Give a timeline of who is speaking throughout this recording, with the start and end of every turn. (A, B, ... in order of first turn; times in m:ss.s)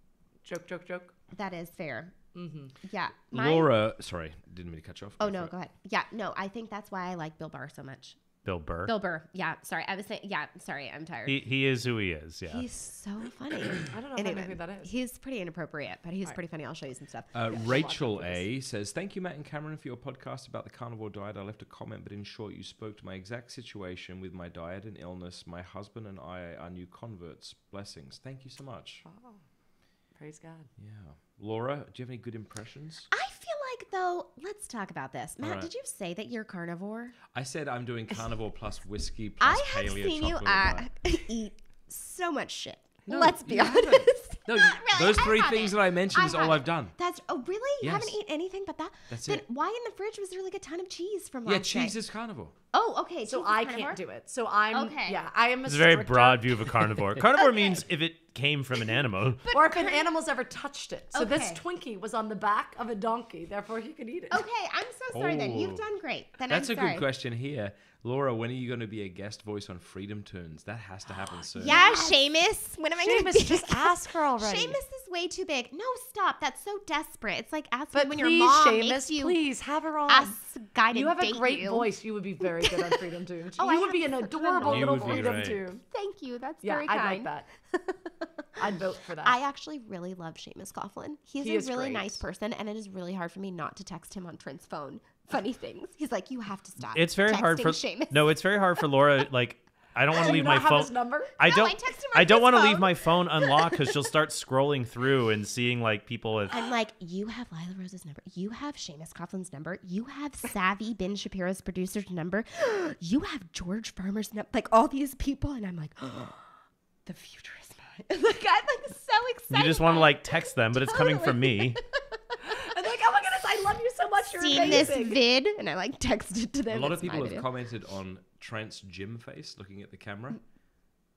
0:00.4-0:01.1 A
0:01.3-0:02.1 B
0:02.3-0:02.7 A
0:02.8-0:03.7 B
0:03.3-0:05.5 C
0:05.2-0:08.2 B
0:08.4-0:08.9 D
0:08.8-0:11.4 B
0:11.2-0:12.7 D
0:12.5-0:17.5 B
0:13.9-0:14.9 A
0:17.3-0:29.0 C
0:17.5-0:18.4 A
0:29.0-0:29.4 A
0:30.2-0:30.7 A
0:30.8-0:33.1 C
0:33.1-0:37.2 B
0:35.4-0:35.7 C
0:37.3-0:40.9 C
0:39.4-0:51.9 B
0:43.1-0:46.9 C
0:47.8-0:48.2 C
0:49.1-0:49.4 C
0:51.4-0:52.5 C
0:52.7-0:54.0 B
0:53.3-0:56.8 A
0:54.7-0:55.2 B
0:55.6-0:59.4 D
0:57.3-0:57.8 B
0:59.4-1:00.1 B
0:59.5-1:04.4 A
1:01.1-1:01.6 B
1:04.3-1:07.0 B
1:05.1-1:05.8 C
1:06.5-1:11.8 C
1:11.5-1:12.2 A
1:11.6-1:19.4 B
1:13.0-1:14.8 A
1:17.9-1:20.4 A
1:20.1-1:21.9 B
1:20.9-1:25.8 A
1:22.6-1:23.0 B
1:23.6-1:28.7 B
1:24.6-1:25.6 C
1:26.6-1:27.5 A
1:28.6-1:29.4 A
1:29.2-1:38.4 B
1:31.4-1:32.2 A
1:36.9-1:46.6 D
1:40.1-1:41.3 A
1:41.4-1:43.9 B
1:46.5-1:56.5 B
1:57.0-2:02.2 B
1:59.5-2:01.8 D
2:02.4-2:05.2 A
2:04.2-2:07.4 B
2:06.7-2:10.4 C